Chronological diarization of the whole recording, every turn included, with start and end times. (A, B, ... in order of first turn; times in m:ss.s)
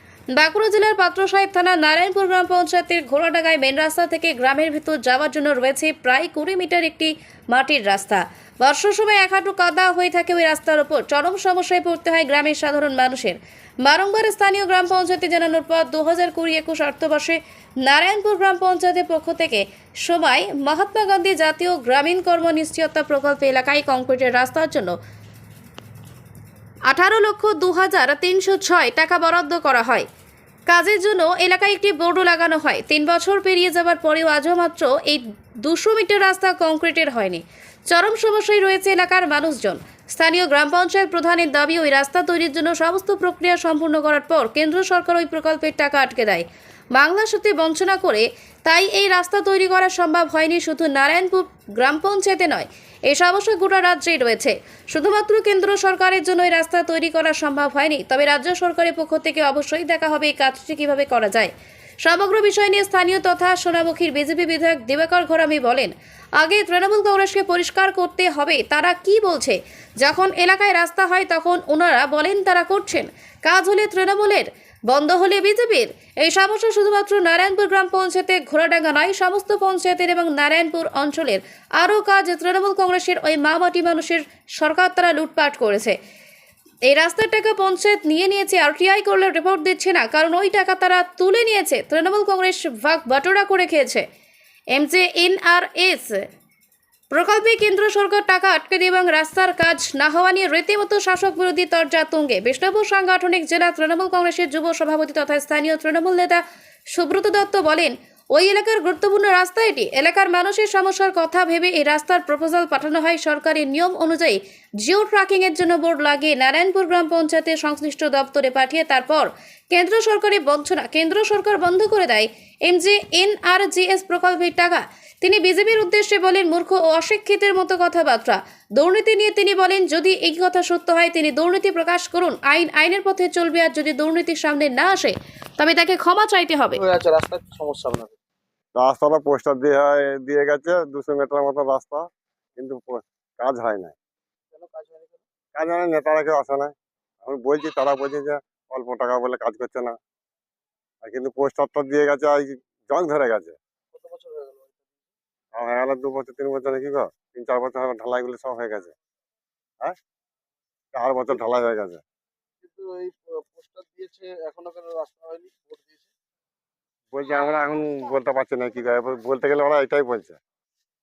0:00.4-0:25.0 A
0:26.9-0:30.1 A
0:30.7-1:01.5 A
1:02.0-1:26.0 A
1:26.9-1:34.0 A
1:34.7-1:36.2 A
1:37.1-1:46.4 A
1:46.9-2:16.8 A
2:16.8-2:18.2 B
2:18.8-2:22.0 C
2:22.6-2:24.0 C
2:24.5-2:25.2 B
2:25.6-2:26.7 C
2:27.2-2:30.0 C
2:31.0-2:33.6 C
2:33.9-2:34.9 B
2:35.5-2:38.9 C
2:40.9-2:42.0 C
2:42.6-2:46.1 B
2:47.1-2:50.4 C